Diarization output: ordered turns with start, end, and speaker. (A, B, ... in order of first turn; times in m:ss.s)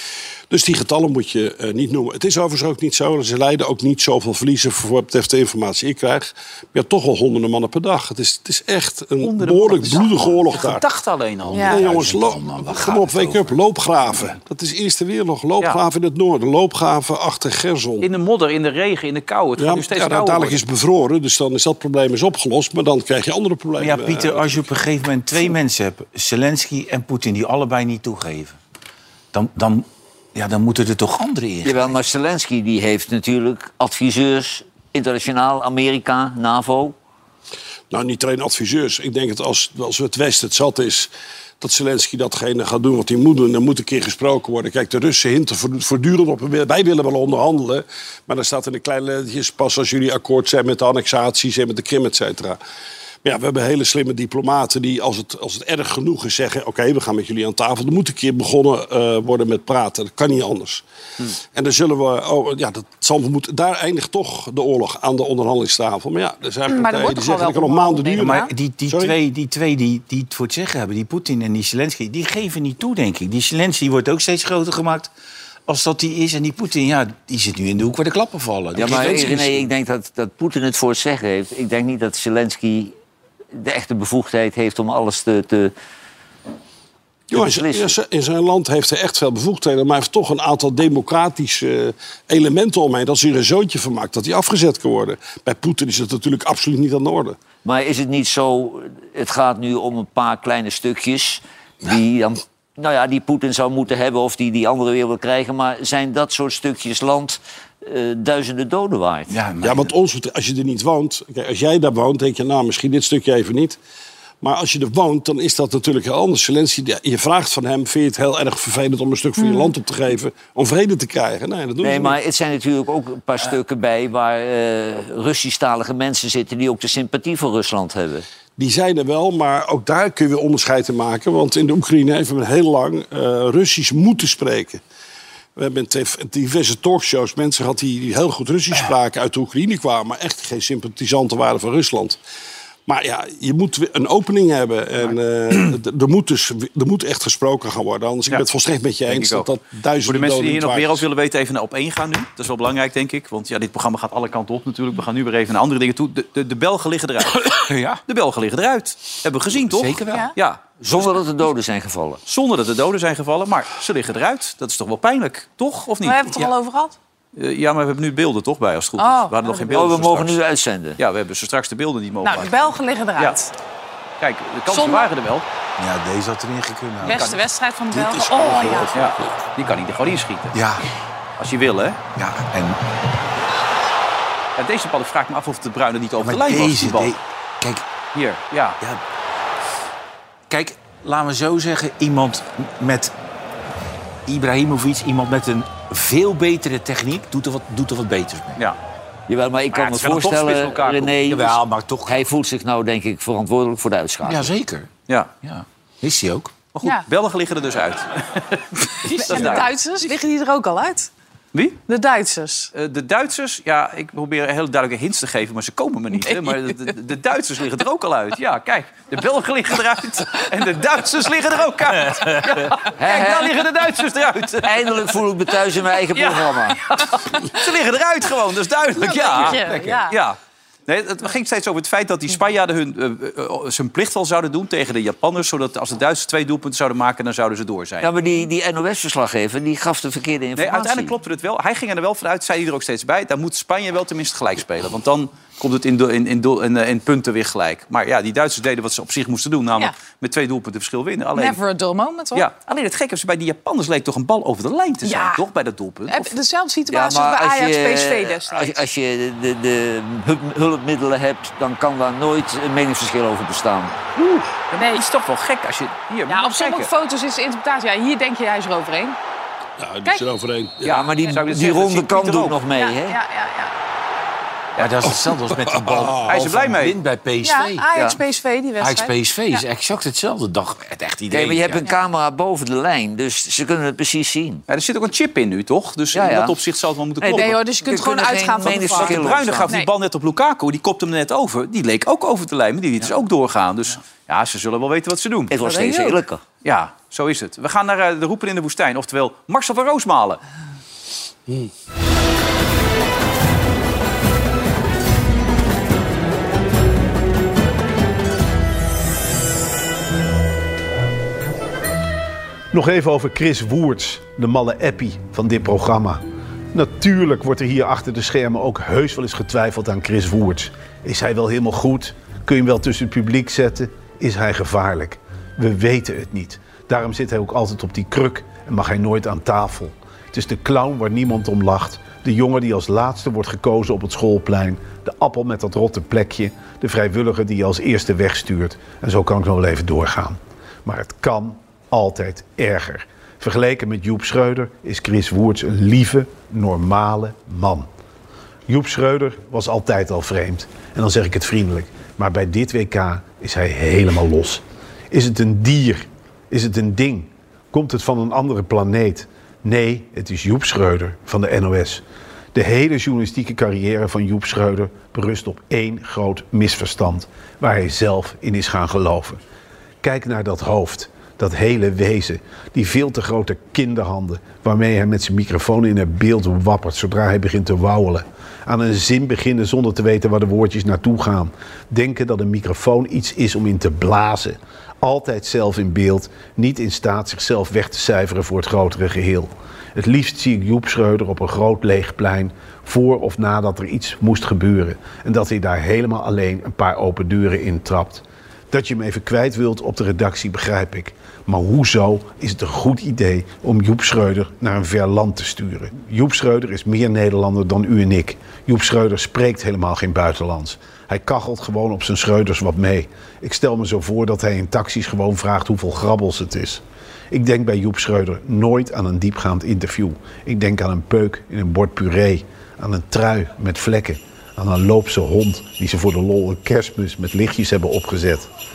0:00.5-0:10.8 A
0:09.2-0:11.7 B
0:11.4-0:13.6 C
0:11.5-0:11.8 D
0:11.7-0:18.1 A
0:18.0-0:20.6 B
0:19.6-0:24.6 A
0:23.8-0:28.6 C
0:29.3-0:31.9 C
0:31.6-0:37.0 E
0:37.9-0:52.6 A
0:53.2-1:00.8 A
1:01.5-1:09.2 A
1:06.7-1:08.5 D
1:08.2-1:15.1 C
1:15.7-1:19.7 C
1:18.8-1:22.9 E
1:23.6-1:25.7 E
1:27.3-1:37.4 A
1:27.3-1:28.0 E
1:37.6-1:49.4 E
1:49.3-1:49.9 C
1:49.6-1:53.8 A
1:54.4-2:02.2 A
1:59.4-1:59.7 D
2:01.8-2:08.2 E
2:08.6-2:14.8 A
2:15.6-2:22.2 A
2:22.9-2:31.0 A
2:29.1-2:29.5 B
2:30.0-2:40.6 B
2:37.3-2:38.0 C
2:39.6-2:40.3 C
2:40.8-2:42.2 E
2:42.3-2:46.4 B
2:46.0-2:47.0 D
2:47.4-2:50.4 B
2:49.0-2:49.8 D
2:49.7-2:51.0 E
2:51.0-2:52.6 B
2:52.2-2:53.5 D
2:54.2-2:55.5 B
2:54.7-2:55.1 D
2:55.8-2:57.4 C
2:57.0-2:59.0 D
2:57.1-2:57.4 B
2:57.9-2:58.8 C
2:58.9-3:00.6 B
3:00.5-3:00.9 C
3:01.4-3:02.0 B
3:02.2-3:02.8 C
3:04.6-3:07.1 B
3:06.2-3:07.8 C
3:08.1-3:08.8 B
3:10.5-3:13.1 C
3:14.3-3:18.6 C
3:19.3-3:24.5 E
3:19.7-3:21.2 B
3:21.3-3:22.2 C
3:24.2-3:24.9 C
3:25.1-3:25.3 B
3:25.4-3:26.6 C
3:26.7-3:28.6 B
3:29.0-3:29.6 C
3:29.1-3:31.1 D
3:29.3-3:29.7 B
3:31.5-3:31.8 B
3:31.9-3:32.7 D
3:32.7-3:44.9 B
3:43.0-3:43.6 E
3:44.6-3:46.8 E
3:46.1-3:58.1 B
3:49.0-3:50.2 D
3:58.0-4:01.1 E
4:00.6-4:11.6 B
4:11.4-4:12.5 D
4:12.3-4:16.3 B
4:15.0-4:15.4 D
4:16.1-4:18.8 D
4:16.9-4:24.0 E
4:24.2-4:26.9 B
4:24.8-4:25.0 D
4:26.3-4:29.2 D
4:29.8-4:31.0 A
4:30.8-4:32.6 B
4:30.8-4:33.2 E
4:32.7-4:33.7 D
4:34.8-4:37.8 C
4:35.7-4:36.4 A
4:36.3-4:37.0 B
4:37.4-4:39.1 D
4:38.8-4:41.8 C
4:41.3-4:44.6 E
4:44.7-4:47.6 B
4:46.1-4:46.6 E
4:47.2-4:49.7 E
4:47.3-4:49.9 D
4:48.7-4:55.5 B
4:55.5-4:56.4 E
4:55.6-4:56.2 D
4:56.6-5:00.4 B
5:12.7-5:16.2 F
5:16.7-5:47.9 F
5:48.7-6:02.0 F
6:02.5-6:09.4 F
6:10.0-7:08.5 F